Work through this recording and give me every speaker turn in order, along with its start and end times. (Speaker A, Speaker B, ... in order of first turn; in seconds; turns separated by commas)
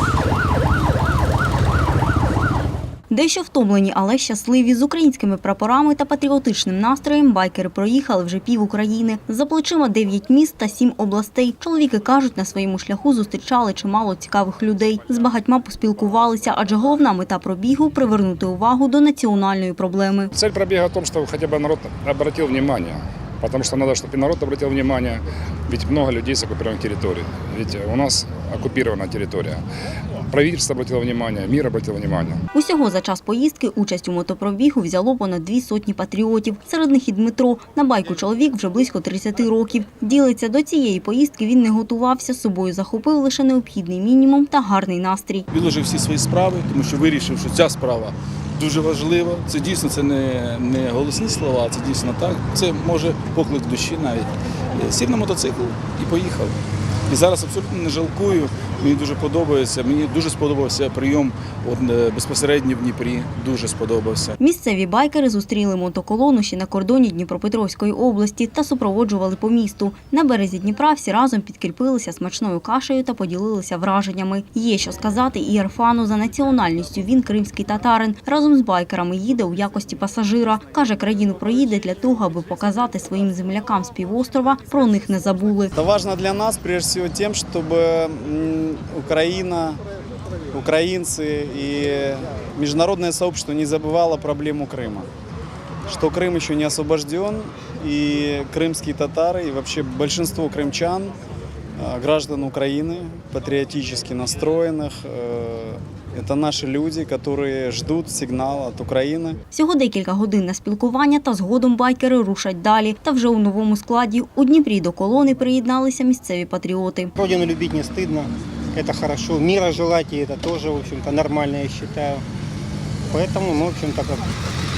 Speaker A: 3.1-20.3, Speaker B: 20.3-29.6, Speaker B: 30.3-32.4, Speaker A: 32.5-45.5, Speaker C: 45.5-56.5, Speaker C: 57.1-64.3, Speaker A: 64.4-85.7, Speaker D: 85.7-89.8, Speaker D: 90.5-95.1, Speaker D: 95.9-101.2, Speaker D: 101.8-109.4, Speaker A: 109.5-117.1, Speaker E: 117.2-122.2, Speaker E: 123.1-124.3